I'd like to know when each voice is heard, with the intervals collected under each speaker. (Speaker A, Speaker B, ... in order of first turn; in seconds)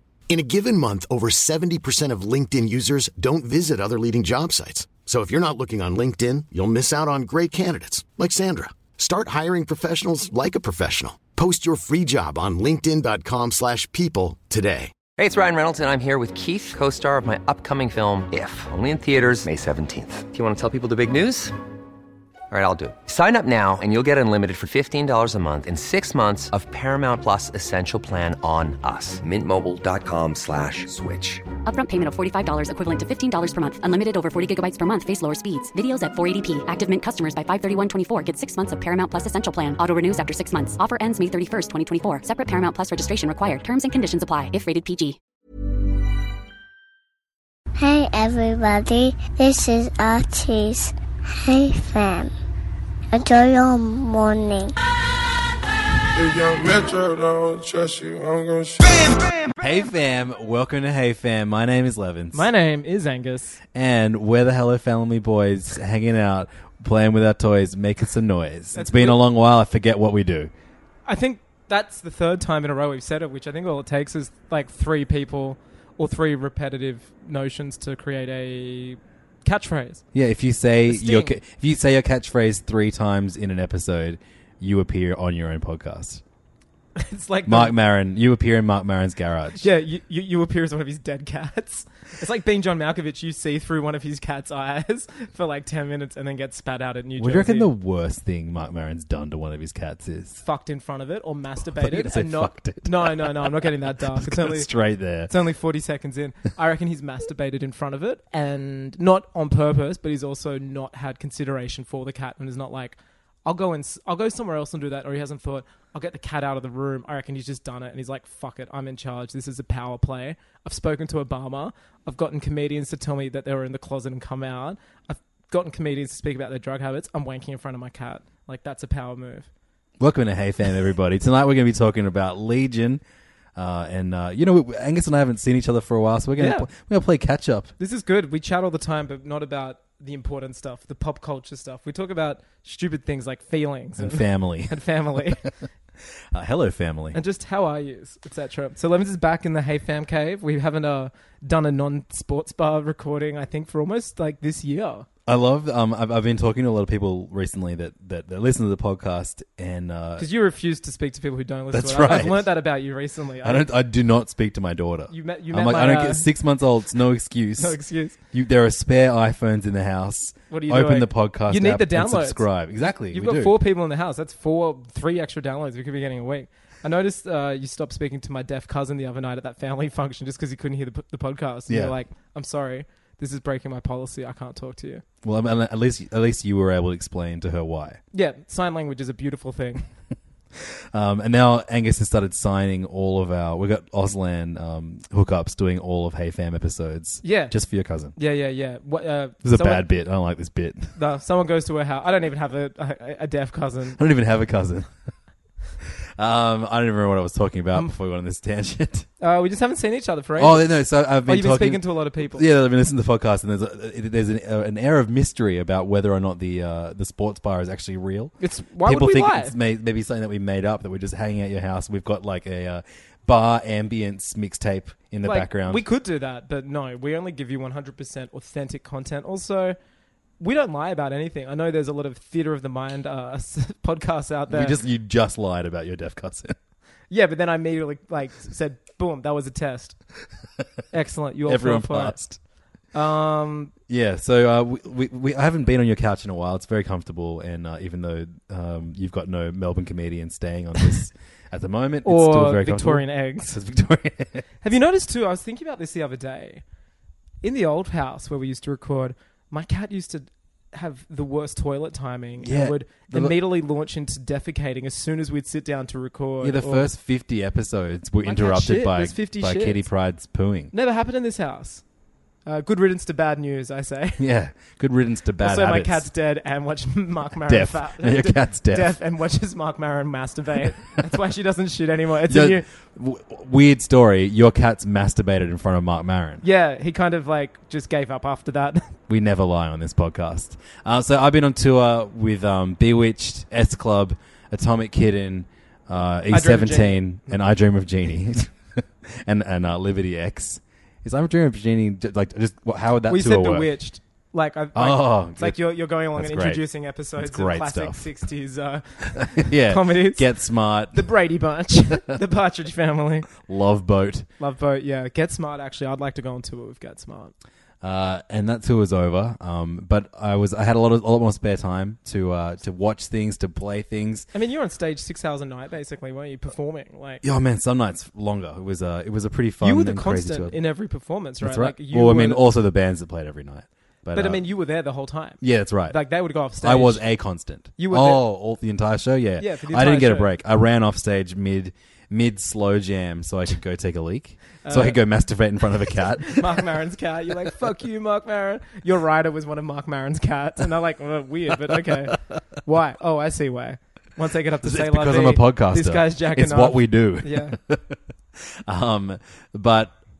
Speaker A: 0.3-14.9
Speaker B: 15.2-21.5, 22.5-31.5
Speaker C: 31.6-45.2
Speaker D: 47.8-52.3, 53.1-54.7
Speaker E: 56.1-59.1
Speaker F: 59.6-62.5, 63.7-70.5, 80.1-86.2, 87.5-89.7, 97.2-100.4, 101.8-105.3, 130.0-133.0, 133.6-137.7, 144.0-144.8, 146.3-147.2, 155.2-160.3, 161.7-162.5, 163.4-167.8, 168.3-173.6, 181.7-181.9, 185.2-188.0, 190.7-198.1, 199.4-200.9, 204.0-204.9, 206.2-209.1, 210.4-225.8, 234.5-236.5, 241.4-242.4, 243.9-254.5, 262.4-263.4, 266.4-270.7, 274.2-276.1, 277.5-278.9, 282.3-286.4, 289.1-303.7, 304.7-308.1, 309.1-311.1, 313.4-314.3, 317.8-324.3, 327.2-330.6, 331.4-334.4, 335.4-336.0, 336.6-346.6, 354.6-359.9
Speaker G: 62.3-63.6, 68.7-69.2, 71.0-80.0, 80.9-81.4, 87.0-87.7, 89.5-97.7, 100.4-104.7, 105.2-129.5, 136.4-136.7, 137.8-145.4, 147.1-155.1, 160.2-163.7, 165.1-166.3, 167.6-168.2, 170.5-172.5, 173.1-185.0, 188.1-189.9, 197.2-197.5, 198.1-199.9, 200.9-204.0, 209.2-212.4, 218.4-219.5, 225.2-229.8, 230.4-234.8, 237.1-240.0, 240.9-242.3, 242.9-243.7, 252.0-253.6, 254.6-256.6, 257.4-266.9, 268.2-269.9, 270.7-271.8, 272.4-274.2, 275.4-282.7, 286.4-289.0, 296.3-297.4, 303.1-310.3, 310.9-313.3, 314.4-317.3, 324.3-327.2, 329.6-332.6, 334.1-337.0, 337.8-338.3, 339.4-340.3, 344.6-345.0, 346.0-357.6